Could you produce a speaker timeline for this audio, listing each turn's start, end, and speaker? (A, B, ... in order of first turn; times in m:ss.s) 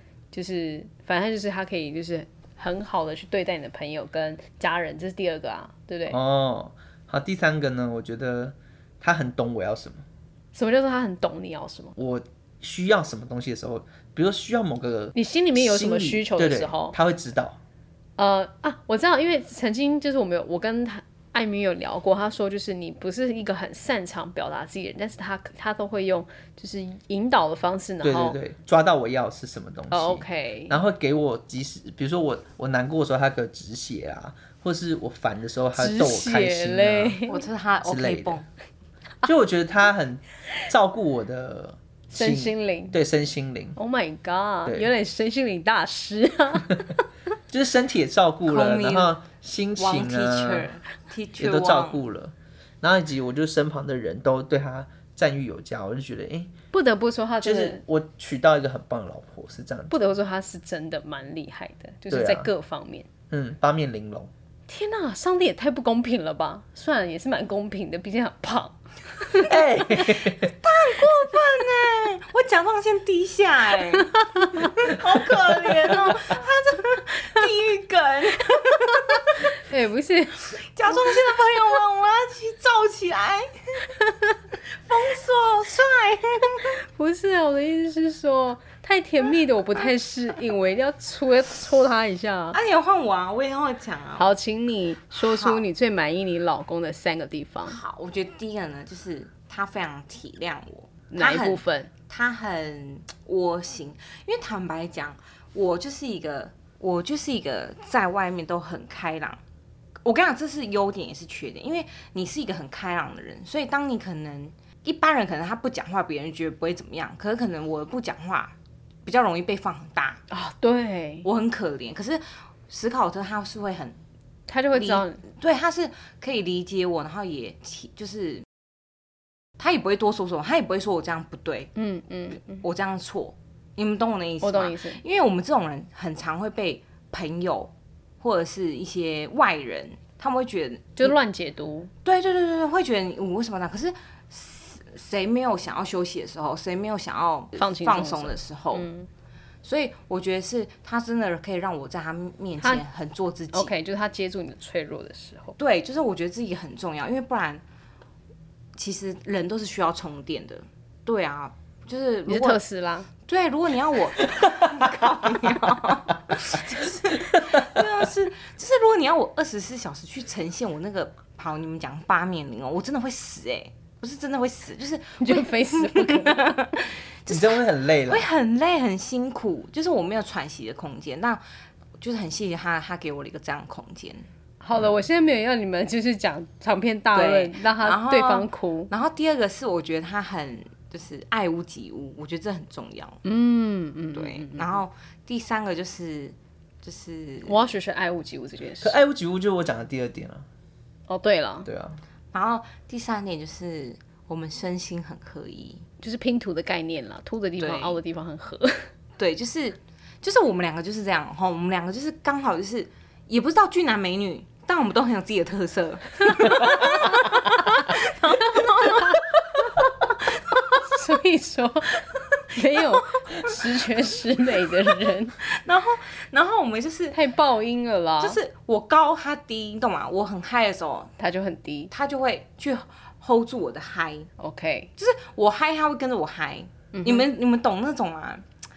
0:00.3-0:06.2 A
0:06.1-0:10.0 B
0:10.5-0:11.9 A
0:12.0-0:17.6 B
0:15.1-0:17.0 A
0:18.2-0:28.4 A
0:28.0-0:37.2 B
0:29.9-0:30.8 A
0:35.7-0:37.4 A
0:37.3-0:38.4 C
0:37.8-0:38.4 B
0:39.2-0:43.8 B
0:42.1-0:43.0 A
0:43.8-0:47.0 A
0:47.5-0:50.7 B
0:48.4-0:49.1 C
0:49.8-0:52.0 C
0:51.4-0:56.5 B
0:56.7-0:57.8 A
0:57.4-1:00.0 B
0:59.9-1:03.1 A
1:02.1-1:02.5 B
1:03.3-1:04.3 B
1:04.7-1:09.8 A
1:09.4-1:10.5 B
1:09.9-1:19.6 C
1:14.4-1:14.7 A
1:19.6-1:21.0 A
1:20.5-1:23.9 C
1:24.8-1:26.7 C
1:26.8-1:32.6 A
1:32.5-1:34.3 C
1:34.2-1:37.8 A
1:35.2-1:35.6 C
1:37.6-1:49.4 C
1:41.1-1:41.9 A
1:50.0-2:00.2 C
2:00.3-2:01.3 A
2:01.2-2:04.0 C
2:04.5-2:05.2 A
2:04.7-2:08.4 C
2:09.6-2:11.7 C
2:11.8-2:12.6 A
2:12.5-2:21.1 C
2:14.4-2:15.0 A
2:21.0-2:21.9 A
2:22.0-2:28.9 C
2:27.6-2:29.1 A
2:29.6-2:33.7 C
2:33.5-2:35.6 A
2:35.6-2:37.6 C
2:38.8-2:42.6 C
2:42.3-2:43.1 A
2:43.2-3:01.4 C
2:47.4-2:47.9 B
2:55.2-2:56.7 A
2:57.3-2:58.3 B
3:02.0-3:04.3 C
3:04.6-3:08.9 A
3:04.8-3:05.0 B
3:07.1-3:13.2 C
3:13.2-3:14.8 A
3:14.1-3:17.7 C
3:17.4-3:19.0 A
3:18.8-3:20.4 B
3:21.1-3:21.7 A
3:21.6-3:22.0 B
3:22.3-3:25.8 C
3:26.0-3:28.9 A
3:27.6-3:28.0 C
3:29.2-3:39.4 C
3:40.0-3:41.1 C
3:40.7-3:45.3 A
3:42.8-3:43.8 C
3:44.7-3:47.2 C
3:47.1-3:48.4 A
3:48.2-3:51.1 C
3:51.2-3:51.9 A
3:51.9-3:54.3 C
3:54.4-3:54.9 A
3:55.0-3:58.4 C
3:56.9-3:57.3 A